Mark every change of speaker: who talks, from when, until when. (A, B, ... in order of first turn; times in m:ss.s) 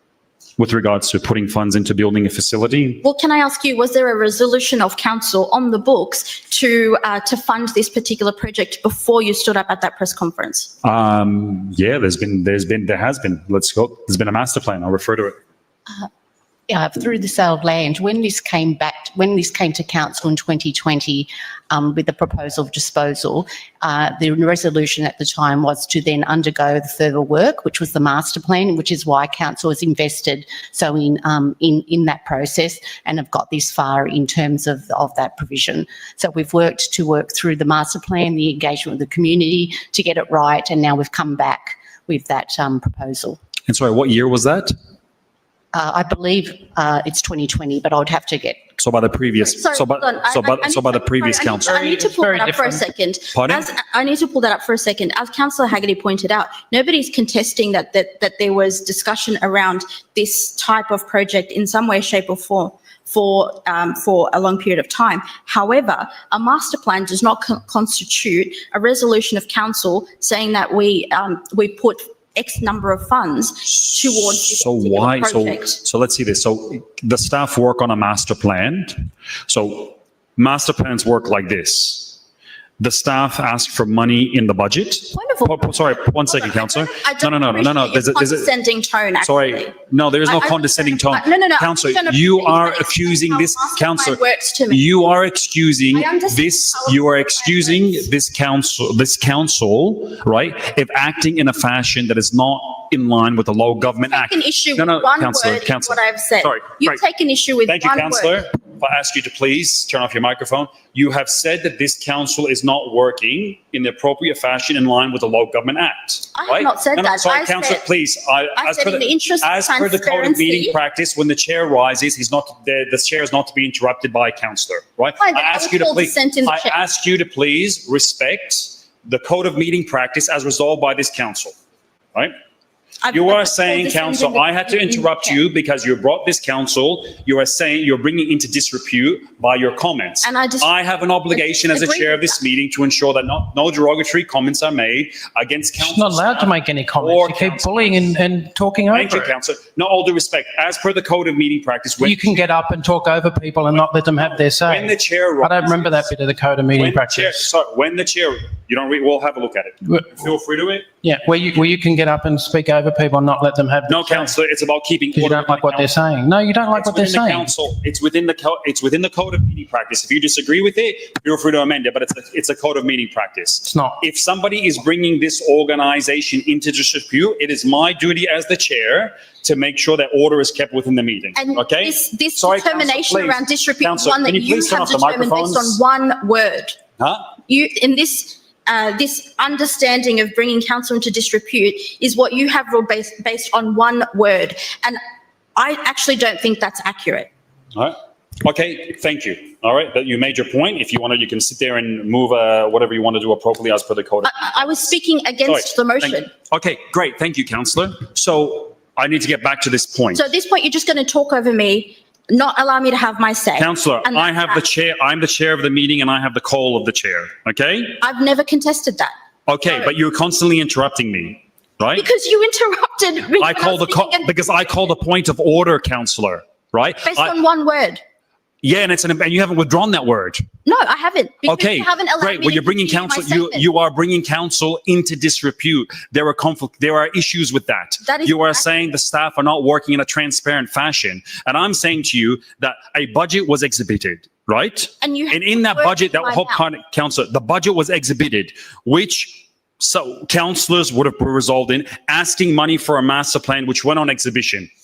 0:00.6-0:03.0 A
0:03.0-0:10.7 B
0:10.8-0:15.4 A
0:16.7-0:43.4 C
0:43.7-0:44.7 A
0:45.7-0:48.6 C
0:48.8-0:51.9 A
0:49.4-1:15.8 B
0:51.7-0:52.8 D
0:53.3-0:53.7 A
1:14.1-1:22.2 A
1:22.8-1:28.5 A
1:25.1-1:29.7 B
1:29.2-1:47.0 A
1:30.2-1:34.8 B
1:35.9-1:38.1 B
1:44.1-1:48.4 B
1:47.7-2:11.5 A
1:56.3-1:57.8 B
1:58.6-2:00.8 B
2:05.2-2:06.8 B
2:13.0-2:15.4 B
2:13.1-2:28.2 A
2:20.2-2:20.7 B
2:21.3-2:22.4 B
2:25.8-2:29.3 D
2:28.9-2:32.3 A
2:32.0-2:37.4 D
2:34.1-2:36.1 A
2:36.7-2:40.9 A
2:41.0-2:44.3 D
2:43.9-2:46.0 A
2:45.1-2:47.5 D
2:46.7-3:05.8 A
2:53.7-2:54.0 D
3:01.3-3:06.8 B
3:07.0-3:07.3 A
3:07.5-3:15.0 B
3:15.6-3:17.3 B
3:17.7-3:24.6 A
3:24.2-3:26.3 B
3:25.4-3:30.3 A
3:30.1-3:34.6 B
3:33.6-3:38.0 A
3:38.0-3:39.1 B
3:39.5-3:42.1 A
3:41.9-3:44.4 B
3:43.4-3:47.3 A
3:47.0-3:48.0 B
3:48.6-3:50.4 A
3:50.6-3:53.7 B
3:51.4-4:14.7 A
3:58.0-3:58.7 B
4:05.0-4:06.6 B